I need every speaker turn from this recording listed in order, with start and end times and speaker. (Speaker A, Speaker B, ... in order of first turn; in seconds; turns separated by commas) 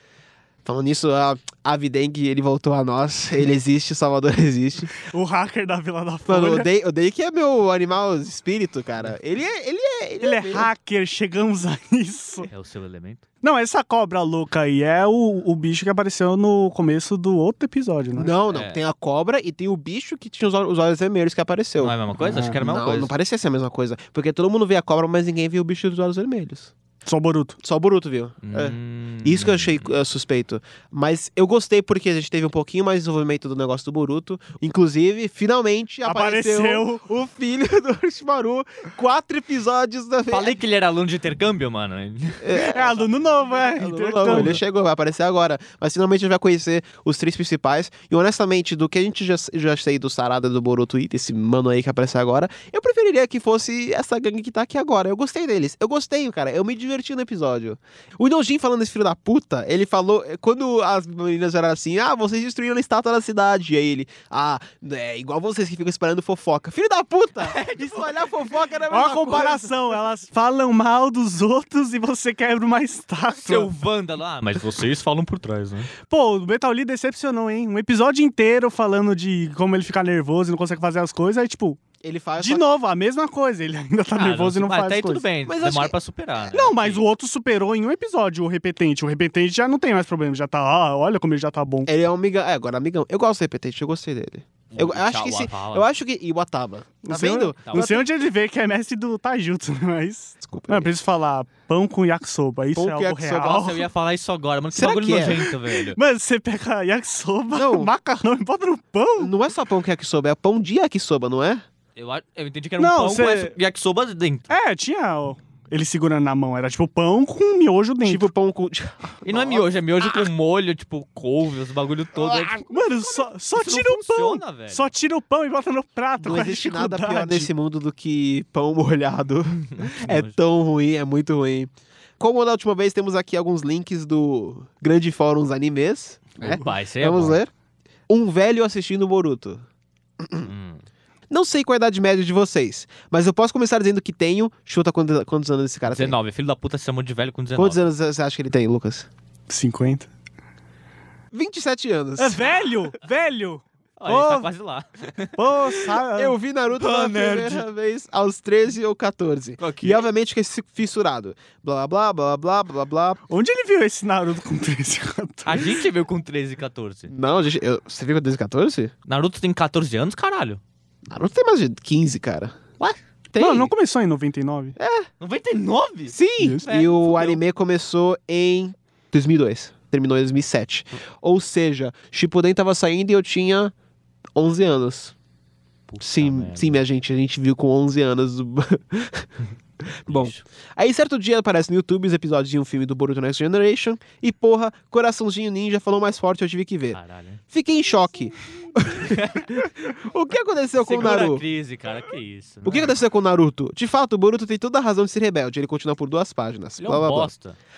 Speaker A: 0.6-4.9, Speaker B: 4.9-6.7, Speaker A: 6.2-10.7, Speaker B: 10.2-12.5, Speaker C: 12.4-13.2, Speaker B: 13.4-18.3, Speaker A: 18.1-21.9, Speaker C: 18.4-18.8, Speaker C: 21.8-23.1, Speaker B: 22.2-22.6, Speaker A: 22.6-26.7, Speaker B: 27.1-27.6, Speaker A: 27.6-40.6, Speaker C: 28.4-29.9, Speaker B: 36.0-37.0, Speaker C: 40.3-42.5, Speaker A: 42.4-43.1, Speaker B: 42.5-44.6, Speaker A: 43.7-69.8, Speaker C: 67.4-68.7, Speaker B: 68.9-73.7, Speaker C: 73.4-75.9, Speaker B: 76.1-81.8, Speaker A: 82.0-82.7, Speaker B: 82.4-85.3, Speaker C: 84.1-87.0, Speaker A: 85.4-86.0, Speaker B: 86.5-91.9, Speaker A: 91.8-98.0, Speaker C: 94.7-95.9, Speaker B: 97.0-103.8, Speaker C: 97.6-98.0, Speaker A: 100.4-100.9, Speaker A: 102.7-103.8, Speaker C: 103.6-106.0, Speaker A: 104.7-105.5, Speaker B: 105.5-109.3, Speaker A: 107.5-107.9, Speaker A: 109.2-111.6, Speaker C: 112.0-114.5, Speaker B: 112.8-113.6, Speaker B: 114.5-118.3, Speaker A: 118.0-120.3, Speaker C: 119.2-122.6, Speaker A: 122.1-123.3, Speaker B: 122.7-127.5, Speaker C: 123.5-124.9, Speaker A: 126.2-137.5, Speaker C: 129.7-130.4, Speaker C: 136.4-137.4, Speaker A: 138.1-139.6, Speaker A: 140.2-140.5, Speaker C: 140.4-140.8, Speaker A: 141.3-146.2, Speaker C: 145.9-147.9, Speaker A: 147.5-149.1, Speaker B: 149.5-150.1, Speaker A: 151.3-152.5, Speaker B: 152.2-154.5, Speaker C: 154.0-155.3, Speaker B: 155.4-156.4, Speaker A: 156.1-163.2, Speaker C: 156.7-157.6, Speaker C: 159.6-160.1, Speaker B: 163.3-165.8, Speaker C: 165.4-167.1, Speaker A: 167.1-168.9, Speaker C: 169.1-170.6, Speaker A: 171.1-172.6, Speaker A: 173.3-173.7, Speaker B: 173.4-174.8, Speaker A: 174.8-175.1, Speaker C: 175.2-177.4, Speaker A: 176.1-183.7, Speaker B: 176.4-176.7, Speaker A: 184.3-185.1, Speaker C: 185.9-186.8, Speaker A: 186.0-189.3, Speaker A: 190.1-197.0, Speaker C: 190.1-190.4, Speaker C: 196.9-197.4, Speaker A: 197.5-201.4, Speaker C: 199.2-199.4, Speaker C: 200.8-202.9, Speaker A: 202.6-207.3, Speaker C: 206.8-207.6